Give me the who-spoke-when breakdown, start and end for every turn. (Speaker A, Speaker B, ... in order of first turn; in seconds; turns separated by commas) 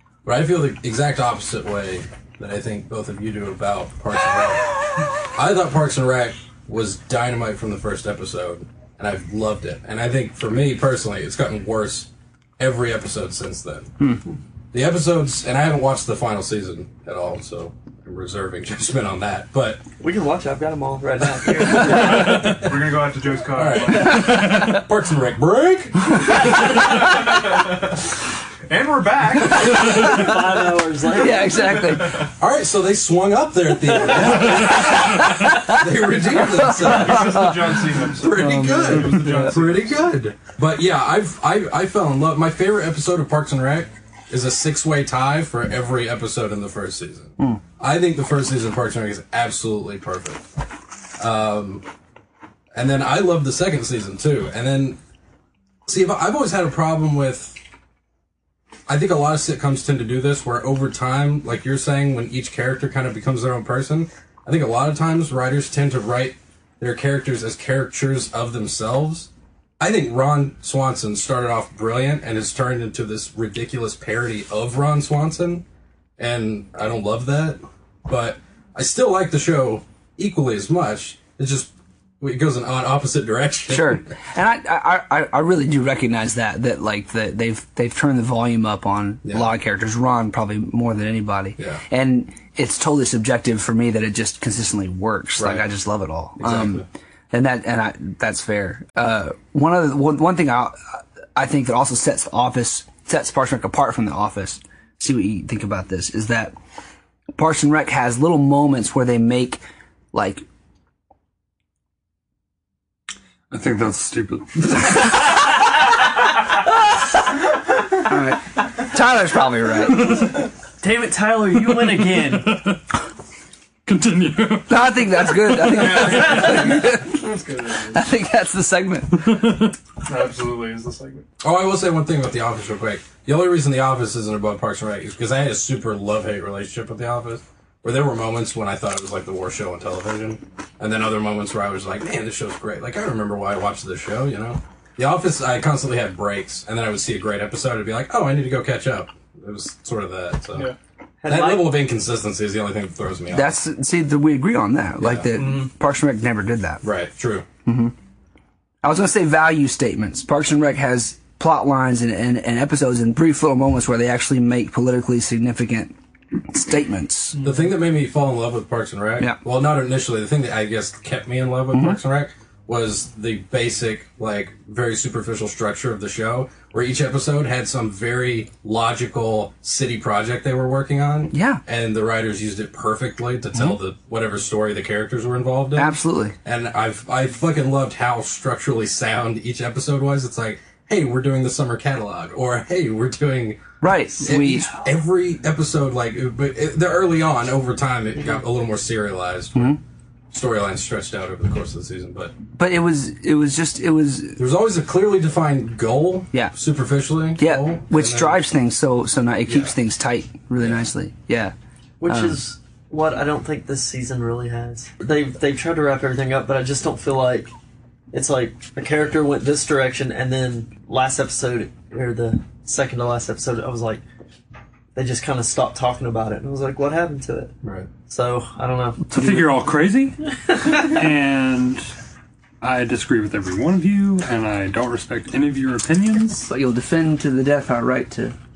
Speaker A: 0.2-13.9, Speaker A: 14.7-19.8, Speaker B: 20.0-22.4, Speaker A: 21.5-23.0, Speaker C: 21.6-24.3, Speaker A: 23.5-26.3, Speaker C: 26.7-28.0, Speaker C: 28.7-30.3, Speaker D: 29.9-30.4, Speaker B: 29.9-31.6, Speaker D: 31.1-32.2, Speaker A: 32.4-50.4, Speaker B: 33.9-34.4, Speaker D: 34.9-37.7, Speaker C: 36.6-40.0, Speaker D: 38.4-39.4, Speaker A: 51.2-51.8, Speaker A: 52.7-55.0, Speaker A: 55.9-57.6, Speaker A: 58.9-69.3, Speaker A: 69.8-75.6, Speaker A: 76.2-84.1, Speaker D: 83.7-106.5, Speaker A: 95.4-95.7, Speaker A: 96.4-96.8, Speaker D: 107.3-109.6, Speaker D: 110.1-110.4, Speaker E: 113.5-115.1, Speaker D: 118.0-120.2, Speaker E: 119.9-120.4, Speaker B: 120.8-122.5, Speaker E: 121.7-122.8, Speaker E: 123.8-126.1, Speaker D: 124.7-127.3, Speaker C: 125.6-128.1, Speaker D: 127.9-129.4, Speaker E: 129.2-129.7, Speaker C: 130.0-131.2, Speaker A: 131.4-150.7, Speaker B: 151.2-151.8, Speaker A: 151.3-153.6, Speaker D: 153.3-156.8, Speaker A: 155.0-155.6, Speaker C: 155.3-155.7, Speaker A: 156.8-157.5, Speaker D: 157.6-157.9, Speaker D: 158.8-165.9, Speaker D: 166.5-167.4, Speaker A: 167.4-193.6, Speaker D: 171.7-172.0, Speaker D: 181.3-181.6, Speaker D: 185.7-186.3, Speaker D: 193.8-194.7, Speaker A: 194.2-199.8, Speaker A: 200.3-202.4, Speaker D: 202.6-204.4, Speaker A: 204.4-208.4, Speaker D: 207.4-211.5, Speaker A: 209.4-209.7, Speaker B: 212.0-217.5, Speaker D: 212.0-212.4, Speaker B: 218.1-224.0, Speaker B: 224.9-227.5, Speaker A: 227.6-227.9, Speaker B: 228.1-229.0, Speaker D: 229.1-229.5, Speaker E: 229.1-231.9, Speaker E: 232.6-236.4, Speaker D: 236.3-238.3